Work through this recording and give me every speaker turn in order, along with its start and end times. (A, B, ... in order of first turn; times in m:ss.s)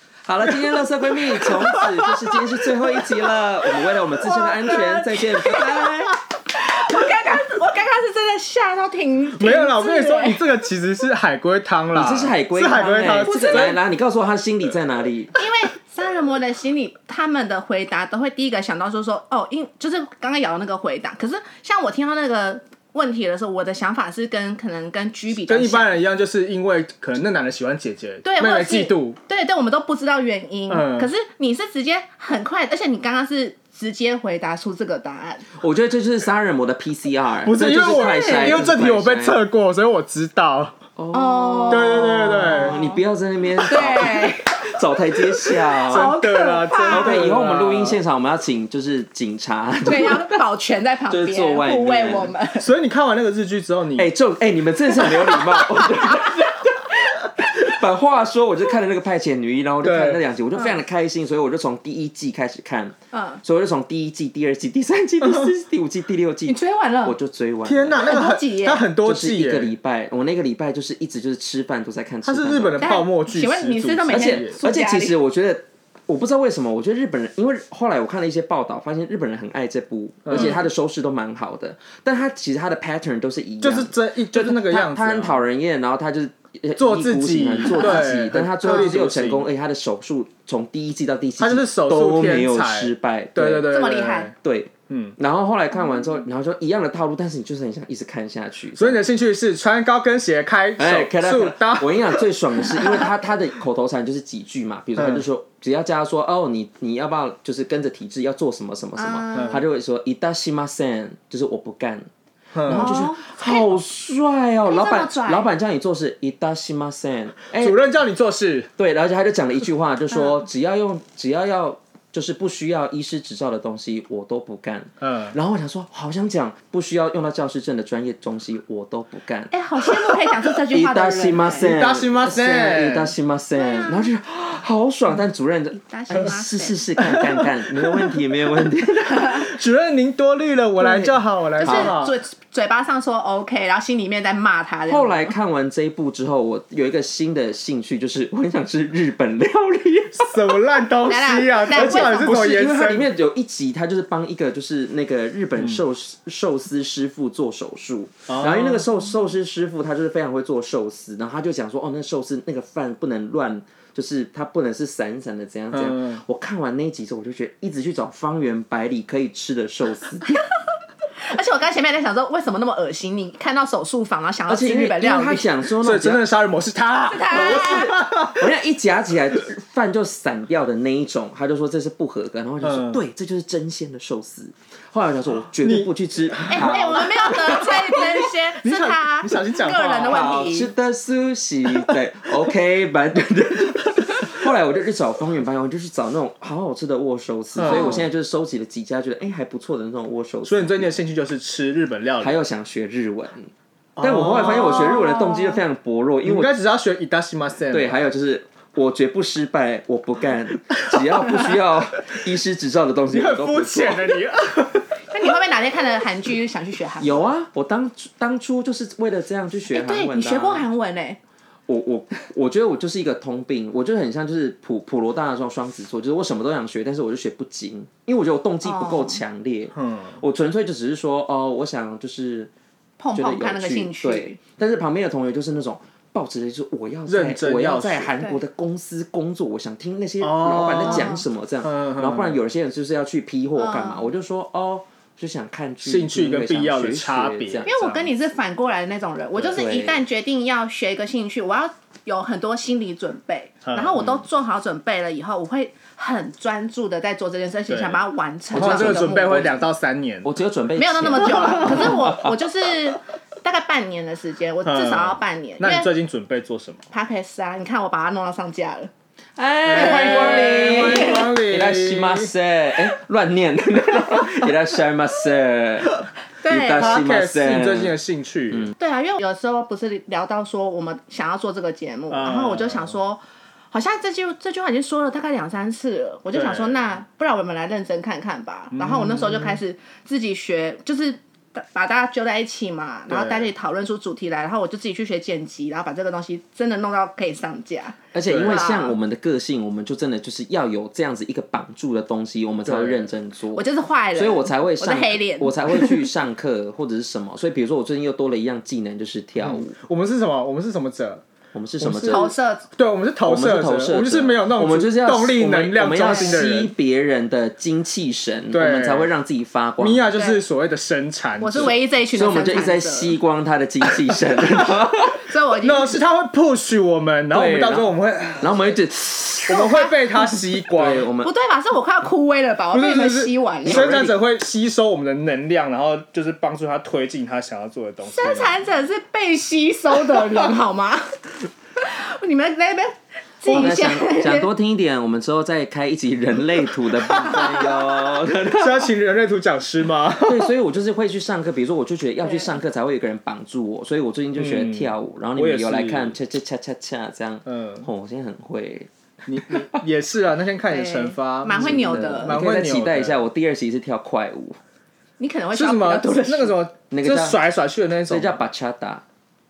0:00.2-0:06.2 A
0:00.4-0:02.3 B
0:04.2-0:10.4 C
0:09.4-0:13.8 B
0:11.9-0:15.4 A
0:13.2-0:13.7 C
0:15.3-0:26.0 C
0:25.3-0:29.2 B
0:28.2-0:35.4 C
0:30.7-0:31.1 B
0:35.6-0:39.4 A
0:37.4-0:40.8 B
0:37.7-0:38.7 C
0:41.0-0:46.2 A
0:41.1-0:43.0 C
0:41.7-0:42.8 B
0:43.6-0:44.8 C
0:45.4-0:47.2 C
0:45.9-0:48.0 B
0:46.9-0:50.4 A
0:49.8-0:52.7 C
0:51.1-0:52.3 A
0:52.6-0:54.1 B
0:54.0-1:08.1 A
0:55.0-0:56.4 C
0:59.8-1:00.2 B
1:03.1-1:03.4 C
1:06.5-1:07.2 C
1:07.6-1:09.7 B
1:08.0-1:08.8 C
1:09.0-1:12.8 A
1:12.2-1:14.6 B
1:12.8-1:15.2 C
1:14.1-1:33.7 A
1:20.2-1:20.6 B
1:23.6-1:25.4 B
1:26.8-1:29.5 B
1:27.6-1:28.1 C
1:31.4-1:34.3 B
1:33.7-1:34.3 C
1:34.4-1:39.0 A
1:34.9-1:35.2 B
1:38.8-1:42.3 B
1:40.8-1:52.1 A
1:45.0-1:45.2 B
1:49.0-1:49.6 C
1:49.3-1:49.6 B
1:52.5-1:53.0 B
1:52.7-1:57.8 A
1:52.7-1:53.8 C
1:54.6-1:55.5 C
1:57.6-1:58.7 B
1:58.8-2:09.5 A
2:05.0-2:05.3 B
2:09.5-2:11.7 C
2:10.7-2:19.5 A
2:11.6-2:13.1 B
2:13.5-2:14.1 C
2:15.7-2:16.8 C
2:17.0-2:18.2 B
2:19.3-2:22.1 B
2:20.8-2:22.0 A
2:21.6-2:25.3 C
2:24.9-2:30.4 A
2:30.2-2:33.1 B
2:31.0-2:32.5 C
2:31.7-2:50.4 A
2:35.6-2:35.8 B
2:38.3-2:38.8 B
2:45.7-2:46.2 B
2:51.2-2:55.5 C
2:54.5-2:56.2 A
2:55.8-2:58.5 B
2:57.1-2:58.0 C
2:57.3-3:07.7 A
3:02.6-3:03.0 B
3:05.6-3:10.4 B
3:06.5-3:10.7 C
3:10.0-3:20.9 A
3:14.0-3:14.2 B
3:17.5-3:18.0 B
3:17.6-3:18.0 C
3:20.4-3:22.4 B
3:22.2-3:26.5 A
3:24.0-3:25.0 B
3:24.3-3:25.6 C
3:26.2-3:28.0 B
3:27.7-3:34.0 A
3:33.1-3:34.9 B
3:35.1-3:37.3 C
3:37.0-3:40.7 A
3:39.7-3:41.2 C
3:41.7-3:52.5 A
3:48.6-3:49.2 C
3:49.7-3:50.2 B
3:53.0-3:54.4 C
3:53.1-4:07.7 A
3:57.1-3:58.1 B
4:00.2-4:02.4 B
4:00.8-4:01.2 C
4:03.6-4:04.1 C
4:05.8-4:08.1 B
4:07.6-4:19.6 C
4:09.5-4:10.0 A
4:13.6-4:14.0 B
4:13.9-4:14.2 A
4:17.7-4:20.3 B
4:18.5-4:19.4 A
4:20.2-4:22.3 A
4:20.8-4:25.9 C
4:21.4-4:22.0 B
4:24.6-4:26.8 B
4:26.9-4:28.9 C
4:29.4-4:37.9 A
4:29.6-4:32.3 B
4:29.7-4:31.3 C
4:36.4-4:37.0 C
4:36.8-4:38.7 B
4:38.8-4:58.9 C
4:42.1-4:43.0 B
4:46.3-4:46.9 B
4:48.7-4:49.6 B
4:53.1-4:53.5 B
4:58.1-5:09.8 A
4:58.2-4:58.7 B
5:02.6-5:03.1 B
5:03.5-5:06.1 C
5:09.4-5:11.2 B
5:11.5-5:12.3 A
5:11.8-5:16.7 B
5:12.1-5:12.7 C
5:13.2-5:20.1 A
5:16.0-5:16.4 C
5:18.5-5:19.1 B
5:19.8-5:21.7 B
5:20.1-5:20.4 C
5:21.4-5:23.2 C
5:21.6-5:25.2 A
5:25.2-5:26.0 C
5:25.6-5:28.8 B
5:27.3-5:29.6 A
5:29.5-5:31.1 B
5:29.5-5:30.4 C
5:30.7-5:31.3 A
5:31.2-5:33.9 C
5:32.7-5:38.6 B
5:33.6-5:34.1 A
5:38.1-5:44.5 C
5:43.5-5:48.9 A
5:47.1-5:47.7 B
5:47.2-5:47.6 C
5:48.4-5:50.5 B
5:50.2-5:58.9 A
5:52.2-5:52.5 C
5:54.4-5:56.2 B
5:57.4-5:57.9 B
5:59.3-6:03.2 B
6:00.7-6:02.3 C
6:01.5-6:04.6 A
6:05.2-6:06.6 C
6:05.5-6:08.4 B
6:06.9-6:07.4 A
6:08.1-6:09.0 A